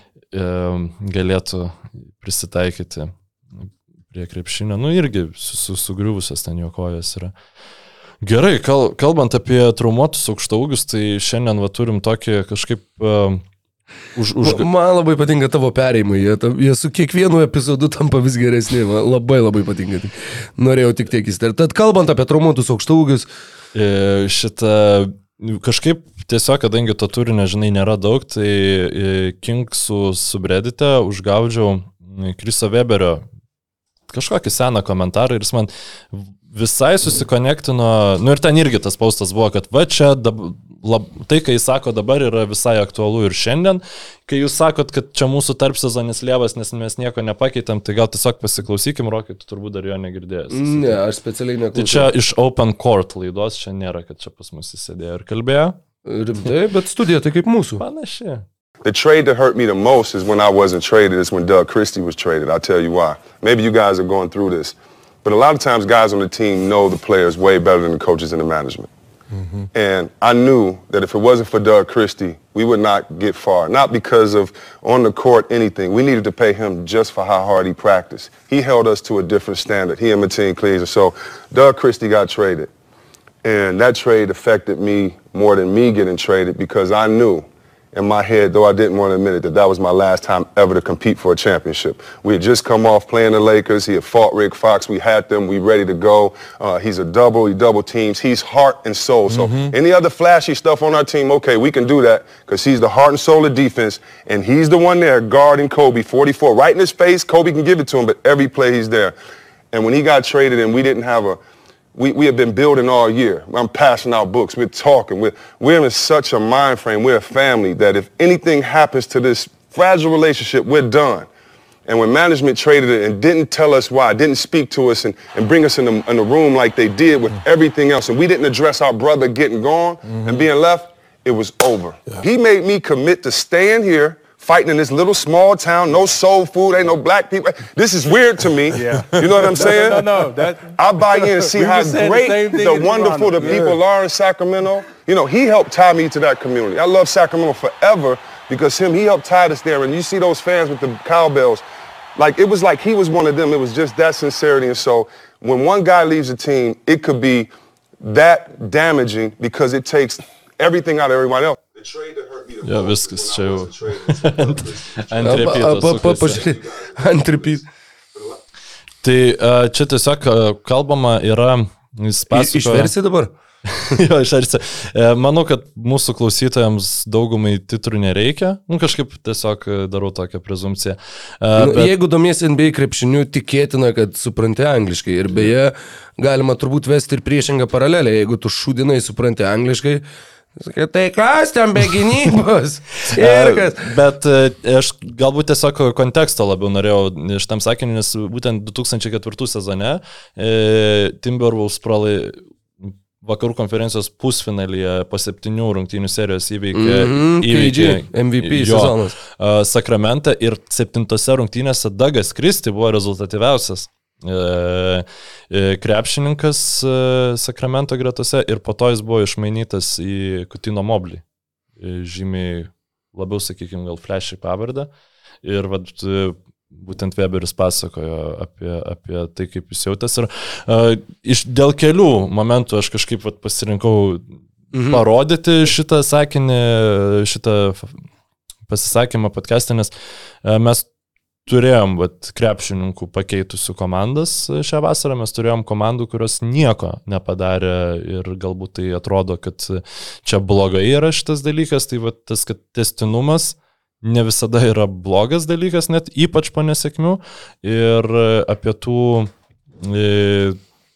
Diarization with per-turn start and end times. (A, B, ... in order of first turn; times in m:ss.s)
0:00.3-0:07.3 A
0:08.2-0:13.4 A
0:14.1-0:14.7 A
0:14.4-0:23.3 B
0:23.7-0:33.2 A
0:34.1-0:51.0 A
0:50.5-0:52.1 B
0:51.7-0:55.8 A
0:56.0-0:57.8 B
0:57.8-0:58.4 A
0:58.8-1:08.9 C
1:09.7-1:22.7 C
1:23.4-1:49.1 C
1:39.3-1:39.7 A
1:49.7-1:51.4 C
1:52.0-2:01.3 C
2:01.9-2:20.1 C
2:10.0-2:10.5 D
2:18.7-2:23.8 D
2:20.7-2:31.6 C
2:32.2-2:44.6 C
2:42.6-2:46.4 A
2:45.2-2:47.6 B
2:49.0-2:52.9 A
2:52.3-2:53.3 B
2:53.7-3:01.9 A
3:01.6-3:10.0 B
3:10.6-3:13.9 B
3:13.1-3:41.2 A
3:26.7-3:29.1 B
3:41.8-3:44.9 A
3:45.4-3:54.4 A
3:54.7-3:55.0 B
3:54.9-3:58.0 A
3:58.7-3:59.9 A
4:00.4-4:00.8 A
4:01.4-4:19.3 A
4:19.8-4:20.6 A